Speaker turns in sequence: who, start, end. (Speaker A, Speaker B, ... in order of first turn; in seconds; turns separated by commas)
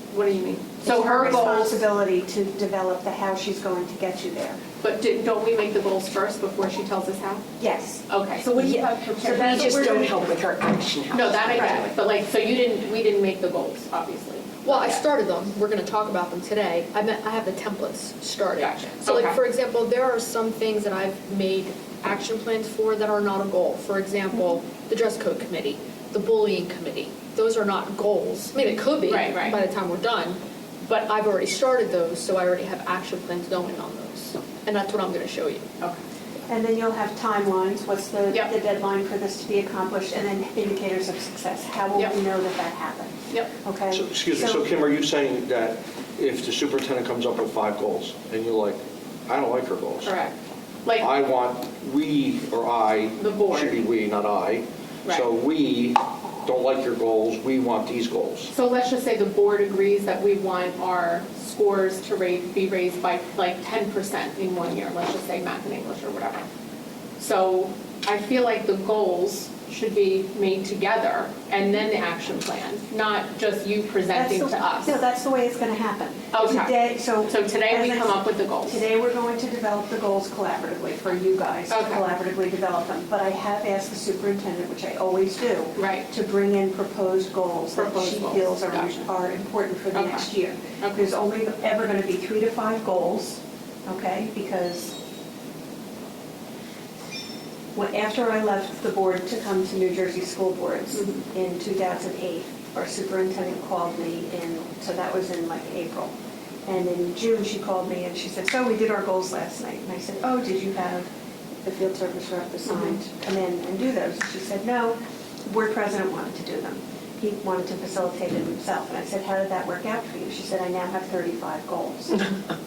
Speaker A: 0.1-1.8, Speaker B: 0.8-4.6, Speaker A: 4.8-7.5, Speaker B: 7.6-8.0, Speaker A: 8.1-10.2, Speaker C: 8.4-11.9, Speaker B: 8.6-10.3, Speaker A: 11.1-15.1, Speaker B: 11.5-11.8, Speaker D: 14.7-35.7, Speaker A: 18.6-19.4, Speaker A: 29.0-29.6, Speaker B: 36.5-44.6, Speaker E: 43.9-50.1, Speaker A: 50.0-50.3, Speaker A: 50.9-51.2, Speaker E: 51.0-58.5, Speaker A: 53.2-53.8, Speaker A: 58.5-66.5, Speaker A: 67.2-75.0, Speaker B: 74.1-95.0, Speaker A: 76.3-78.8, Speaker A: 81.7-82.0, Speaker A: 85.8-86.1, Speaker A: 87.8-89.0, Speaker A: 89.9-90.3, Speaker A: 90.8-91.1, Speaker B: 97.8-106.2, Speaker A: 101.0-101.2, Speaker B: 106.7-111.1, Speaker B: 111.6-122.2